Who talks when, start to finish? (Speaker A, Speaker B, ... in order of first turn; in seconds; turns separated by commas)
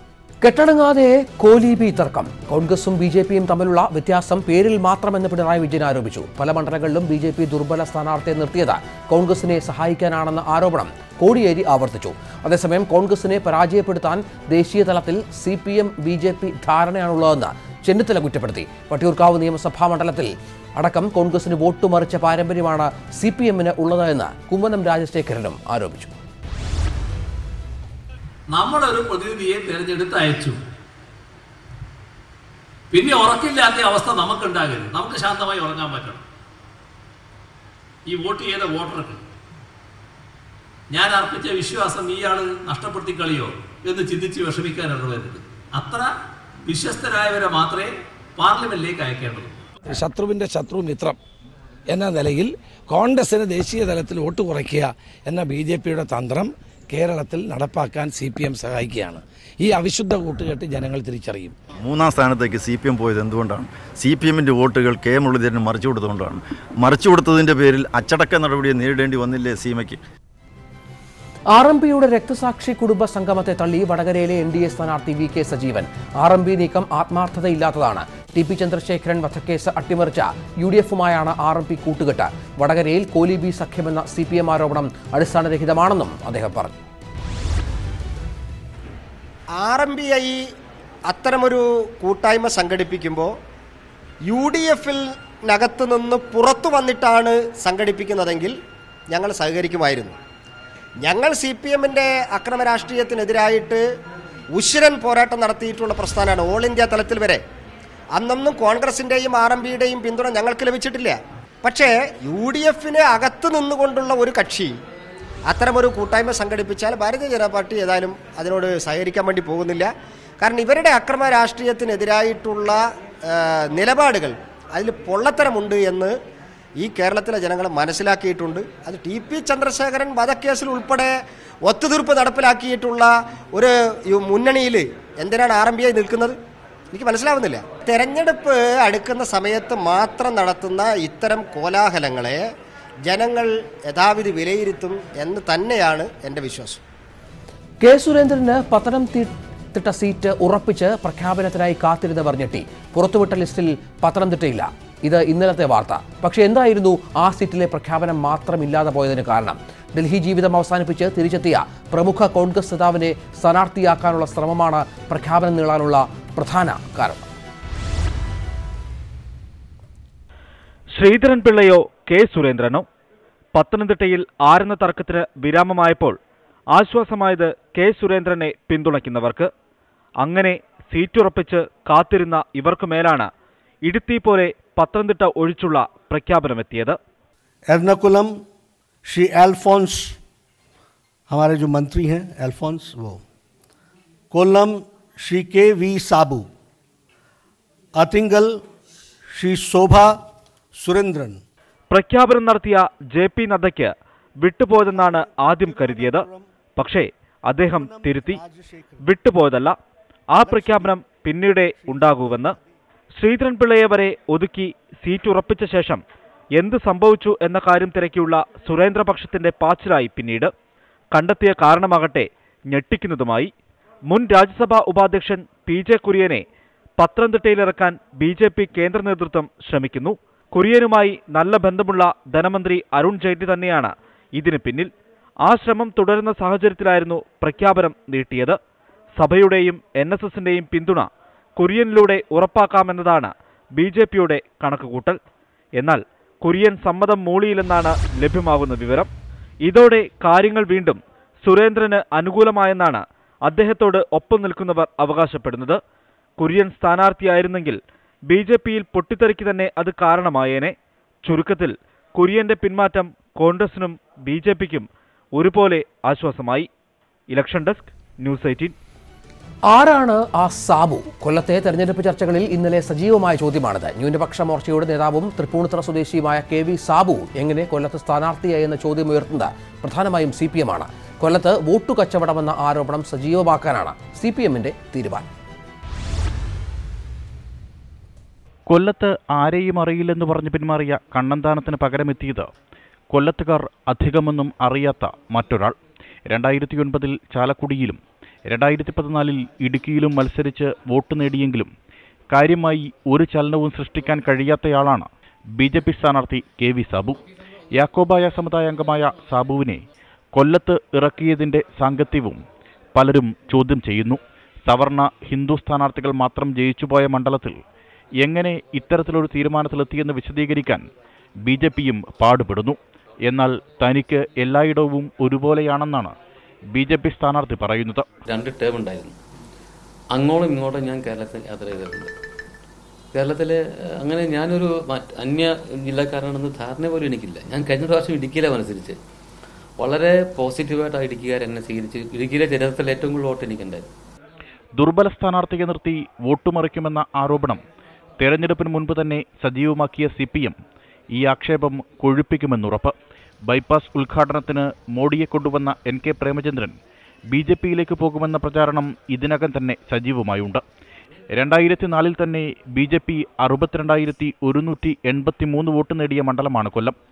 Speaker A: 0.4-26.1, Speaker B: 28.5-30.6, Speaker B: 32.9-36.2, Speaker B: 38.1-39.2, Speaker B: 40.9-46.1, Speaker B: 46.7-49.5, Speaker C: 50.0-51.1, Speaker C: 51.9-61.5, Speaker D: 61.8-70.0, Speaker A: 71.5-86.8, Speaker E: 89.5-90.4, Speaker E: 91.1-93.3, Speaker E: 94.3-98.5, Speaker E: 99.1-100.2, Speaker E: 101.0-103.8, Speaker E: 104.5-107.4, Speaker E: 108.1-114.7, Speaker E: 115.5-126.1, Speaker E: 126.8-136.4, Speaker E: 136.9-142.4, Speaker E: 143.1-146.8, Speaker A: 147.8-167.3, Speaker F: 170.9-172.8, Speaker F: 173.6-176.2, Speaker F: 176.7-179.5, Speaker F: 180.2-183.3, Speaker F: 183.8-187.0, Speaker G: 187.7-188.3, Speaker G: 189.1-190.2, Speaker G: 191.3-193.2, Speaker G: 194.3-196.5, Speaker G: 198.0-198.6, Speaker G: 199.4-200.1, Speaker G: 200.8-201.4, Speaker F: 201.9-208.4, Speaker G: 204.9-206.5, Speaker G: 207.7-209.0, Speaker F: 209.0-209.8, Speaker F: 210.3-212.6, Speaker G: 210.4-211.0, Speaker G: 211.9-212.5, Speaker F: 213.2-216.0, Speaker F: 216.6-220.5, Speaker F: 221.1-223.5, Speaker F: 224.1-226.4, Speaker F: 227.0-234.9, Speaker F: 235.5-238.6, Speaker F: 239.2-245.2, Speaker F: 245.8-249.1, Speaker F: 249.7-255.8, Speaker F: 256.4-257.8, Speaker F: 258.3-260.7, Speaker F: 261.2-266.7, Speaker F: 267.3-268.7, Speaker A: 269.7-285.3, Speaker H: 288.7-292.5, Speaker H: 293.1-295.7, Speaker H: 296.3-301.7, Speaker H: 302.3-305.1, Speaker H: 305.6-307.2, Speaker H: 307.7-309.8, Speaker H: 310.3-312.4, Speaker H: 312.9-317.6, Speaker H: 318.2-320.8, Speaker H: 321.4-326.1, Speaker H: 326.7-328.1, Speaker I: 328.3-329.1, Speaker I: 330.1-332.1, Speaker I: 333.1-339.0, Speaker I: 339.8-343.9, Speaker H: 344.8-347.6, Speaker H: 348.2-350.6, Speaker H: 351.1-352.9, Speaker H: 353.5-356.8, Speaker H: 357.3-360.6, Speaker H: 361.3-367.0